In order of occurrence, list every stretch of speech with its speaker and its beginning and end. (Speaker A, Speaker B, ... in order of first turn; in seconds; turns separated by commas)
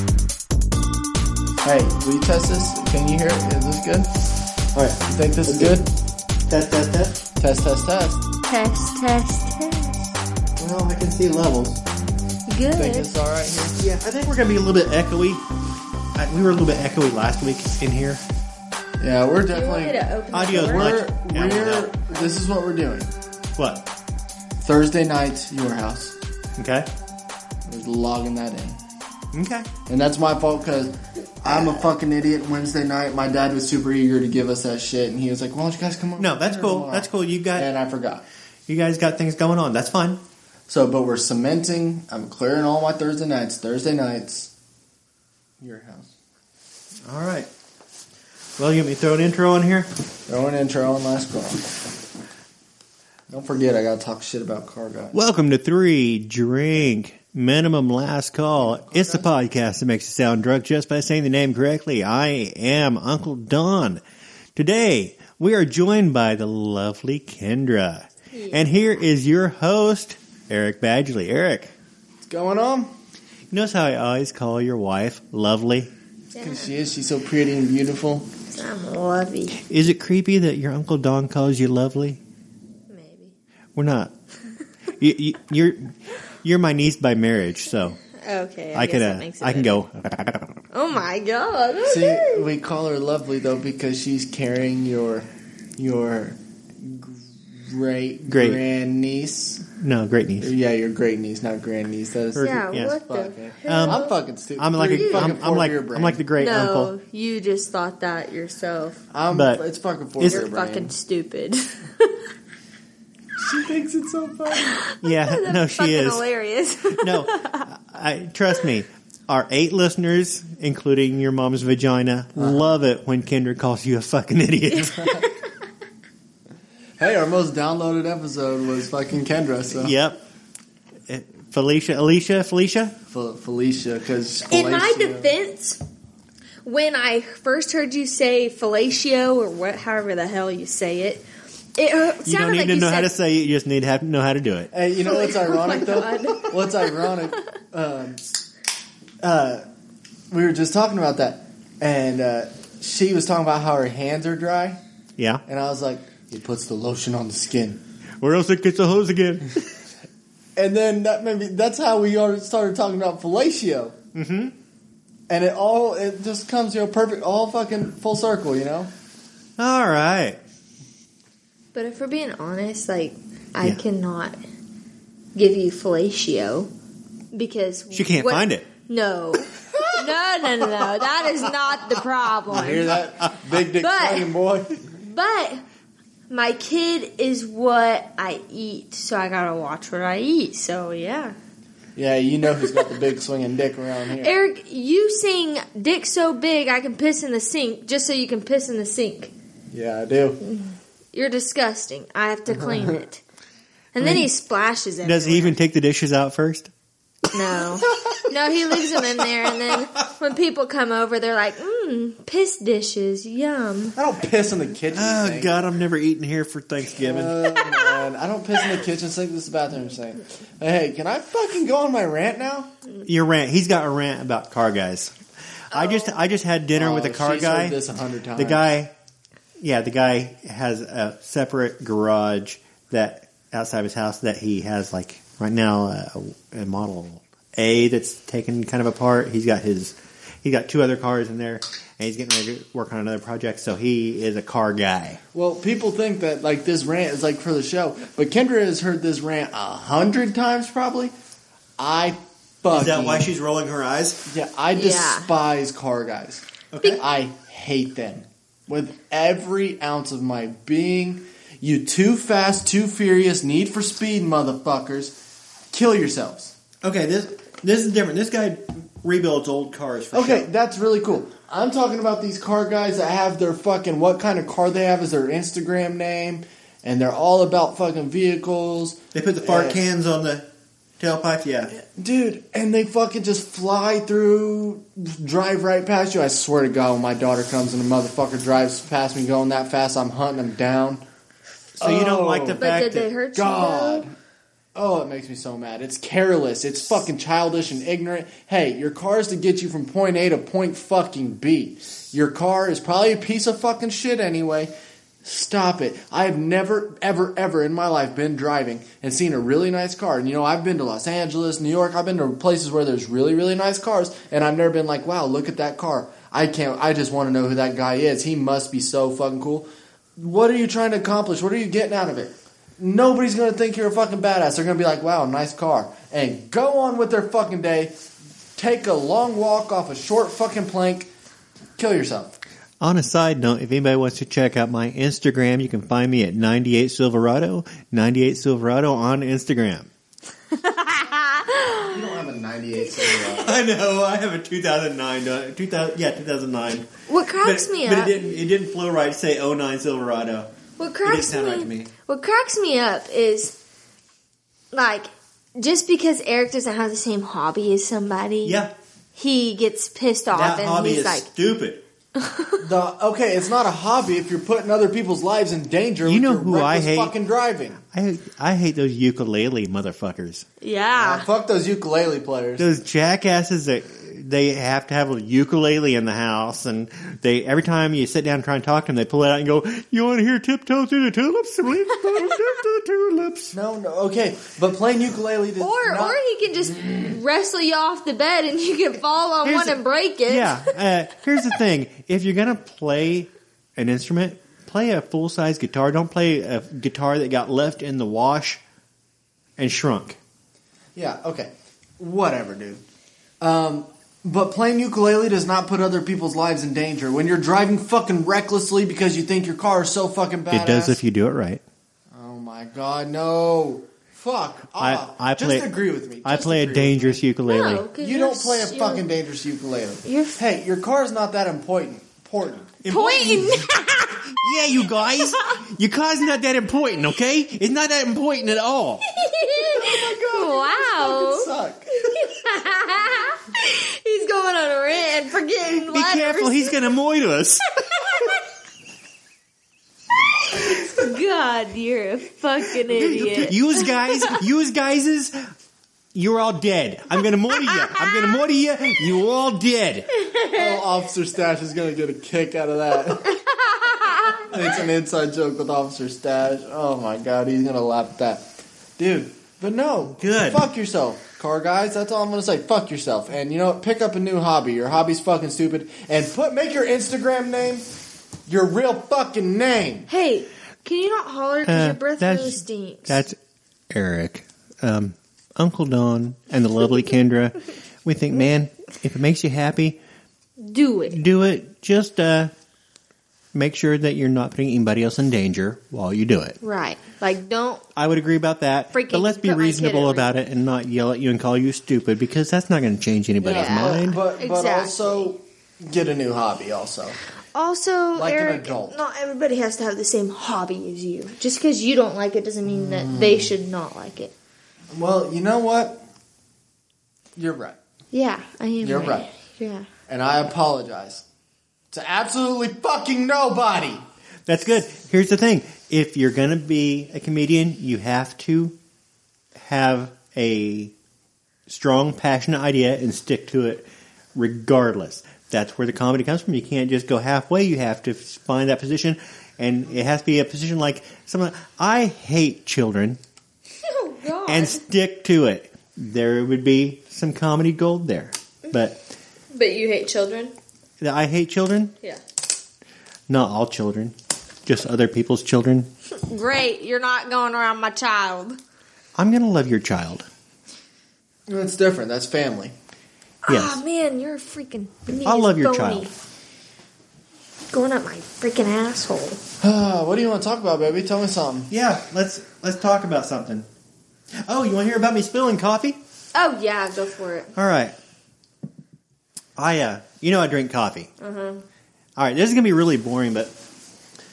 Speaker A: 1.6-4.1, Speaker B: 4.7-5.8, Speaker A: 5.1-5.9, Speaker B: 6.5-7.2, Speaker A: 7.4-8.3, Speaker C: 8.4-10.0, Speaker B: 10.6-11.8, Speaker C: 12.5-13.1, Speaker A: 12.7-13.8, Speaker B: 13.8-15.4, Speaker B: 16.2-18.2, Speaker A: 19.0-23.1, Speaker C: 19.5-21.0, Speaker B: 20.3-22.0, Speaker B: 23.6-23.9, Speaker A: 24.6-26.2, Speaker B: 26.6-26.9, Speaker A: 27.7-28.8, Speaker B: 29.3-29.7, Speaker A: 29.9-38.2, Speaker B: 36.2-37.7, Speaker B: 38.7-40.2, Speaker A: 40.7-44.5, Speaker A: 45.6-46.1, Speaker B: 47.0-47.5, Speaker B: 48.6-49.9, Speaker A: 50.3-51.9, Speaker A: 53.3-55.2, Speaker B: 55.1-64.0, Speaker A: 58.6-59.3, Speaker B: 64.6-71.7, Speaker C: 68.3-68.7, Speaker A: 72.2-72.9, Speaker B: 73.5-75.9, Speaker C: 76.3-76.7, Speaker A: 76.4-78.3, Speaker C: 78.5-79.6, Speaker B: 79.6-82.2, Speaker C: 82.9-83.3, Speaker B: 83.8-84.1, Speaker B: 85.0-88.0, Speaker C: 88.2-89.8, Speaker B: 88.8-90.5, Speaker C: 90.7-92.5, Speaker A: 91.8-99.7, Speaker B: 98.3-98.6, Speaker B: 99.8-100.5, Speaker A: 100.4-106.2, Speaker B: 102.3-103.0, Speaker C: 102.4-104.1, Speaker B: 103.7-104.1, Speaker B: 104.6-106.9, Speaker C: 104.9-105.2, Speaker C: 106.4-109.0, Speaker A: 109.1-110.9, Speaker B: 109.3-109.6, Speaker B: 110.2-110.4, Speaker C: 110.3-112.2, Speaker A: 113.4-114.7, Speaker C: 114.5-117.7, Speaker B: 115.0-116.2, Speaker B: 117.0-125.2, Speaker A: 122.4-122.6, Speaker C: 124.9-125.5, Speaker A: 127.0-129.9, Speaker B: 129.7-130.2, Speaker B: 131.1-133.0, Speaker A: 133.1-135.3, Speaker C: 134.5-135.8, Speaker C: 136.7-141.2, Speaker C: 141.8-143.1, Speaker B: 142.2-144.7, Speaker A: 144.7-148.3, Speaker C: 145.0-147.1, Speaker A: 149.2-149.7, Speaker A: 150.3-154.8, Speaker B: 155.2-155.4, Speaker A: 155.5-157.8, Speaker B: 158.2-159.6, Speaker A: 160.6-164.0, Speaker B: 164.2-164.6, Speaker A: 165.3-168.9, Speaker B: 169.6-170.4, Speaker C: 171.7-174.4, Speaker C: 175.3-176.7, Speaker C: 177.3-182.9, Speaker B: 177.9-178.7, Speaker A: 179.7-180.1, Speaker A: 182.5-184.9, Speaker C: 183.8-184.3, Speaker C: 184.9-185.6, Speaker C: 186.3-191.4, Speaker A: 192.0-194.3, Speaker C: 194.2-199.3, Speaker A: 199.7-200.4, Speaker C: 200.4-203.2, Speaker A: 202.6-202.9, Speaker C: 203.9-205.5, Speaker B: 205.0-206.7, Speaker C: 207.3-214.0, Speaker A: 214.0-215.7, Speaker B: 214.9-217.8, Speaker A: 217.0-222.7, Speaker C: 217.7-217.9, Speaker B: 223.1-225.1, Speaker B: 225.7-227.8, Speaker C: 225.7-226.1, Speaker A: 226.7-228.7, Speaker B: 228.4-228.9, Speaker B: 229.6-245.2, Speaker A: 245.3-251.1, Speaker A: 251.8-253.3, Speaker B: 252.7-254.2, Speaker A: 254.3-265.2, Speaker C: 254.7-255.3, Speaker B: 256.7-257.0, Speaker A: 265.7-266.5, Speaker B: 266.8-270.5, Speaker A: 270.1-279.8, Speaker B: 279.1-280.4, Speaker B: 281.0-281.7, Speaker A: 281.7-291.0, Speaker A: 291.8-292.6, Speaker B: 291.8-293.1, Speaker C: 292.6-294.1, Speaker A: 293.4-294.1, Speaker A: 294.8-304.7, Speaker A: 305.2-327.9, Speaker A: 328.6-331.1, Speaker A: 331.8-332.4, Speaker B: 332.8-339.9, Speaker C: 340.6-342.0, Speaker A: 341.8-343.6, Speaker B: 343.4-346.9, Speaker C: 347.1-348.2, Speaker B: 347.4-350.5, Speaker C: 350.8-353.6, Speaker B: 351.0-351.9, Speaker C: 354.7-358.6, Speaker B: 358.4-358.7, Speaker C: 359.1-361.3, Speaker B: 360.3-361.8, Speaker C: 362.2-362.6, Speaker A: 362.6-367.8, Speaker B: 366.1-367.1, Speaker B: 367.9-370.4, Speaker C: 370.6-371.3, Speaker A: 370.9-372.7, Speaker B: 372.6-383.6, Speaker A: 383.5-386.2, Speaker C: 385.6-390.7, Speaker B: 389.4-398.6, Speaker B: 399.6-400.2, Speaker A: 401.0-402.8, Speaker A: 403.4-411.0, Speaker B: 410.5-411.6, Speaker A: 412.1-417.2, Speaker B: 414.8-417.9, Speaker C: 417.5-419.1, Speaker A: 418.0-422.7, Speaker C: 420.0-420.4, Speaker B: 422.8-423.7, Speaker C: 422.9-425.6, Speaker B: 424.3-429.1, Speaker C: 429.1-436.8, Speaker A: 429.6-431.9, Speaker B: 435.9-438.3, Speaker C: 437.9-438.4, Speaker C: 440.6-444.4, Speaker B: 442.8-445.4, Speaker B: 446.1-450.1, Speaker C: 447.6-448.3, Speaker C: 450.2-450.7, Speaker A: 450.5-453.4, Speaker C: 453.4-454.5, Speaker A: 454.4-467.9, Speaker B: 460.2-460.6, Speaker A: 468.5-470.1, Speaker C: 470.1-473.2, Speaker B: 471.7-473.4, Speaker B: 473.9-480.0, Speaker C: 480.6-481.2, Speaker B: 481.1-482.5, Speaker B: 483.5-486.6, Speaker C: 486.6-487.8, Speaker B: 488.0-494.2, Speaker C: 488.9-490.3, Speaker C: 493.4-495.3, Speaker A: 493.5-497.2, Speaker C: 497.5-504.3, Speaker A: 498.1-499.0, Speaker A: 502.7-503.5, Speaker A: 504.9-506.0, Speaker A: 507.4-507.8, Speaker C: 508.1-509.9, Speaker A: 508.8-509.3, Speaker A: 510.1-511.2, Speaker A: 511.9-514.0, Speaker B: 514.5-518.8, Speaker B: 519.6-520.9, Speaker B: 521.7-533.2, Speaker C: 533.8-534.8, Speaker B: 534.5-539.1, Speaker C: 539.5-540.5, Speaker B: 541.0-541.9, Speaker B: 543.3-544.1, Speaker B: 544.7-545.9, Speaker C: 546.2-548.6, Speaker B: 549.2-550.3, Speaker A: 551.5-552.7, Speaker C: 553.5-556.1, Speaker B: 553.5-553.8, Speaker B: 555.2-556.1, Speaker C: 557.7-559.4, Speaker A: 559.6-561.7, Speaker B: 561.7-563.7, Speaker B: 564.5-566.0, Speaker C: 566.3-567.5, Speaker B: 567.5-567.9, Speaker B: 569.6-571.1, Speaker C: 571.2-571.6, Speaker B: 572.2-573.5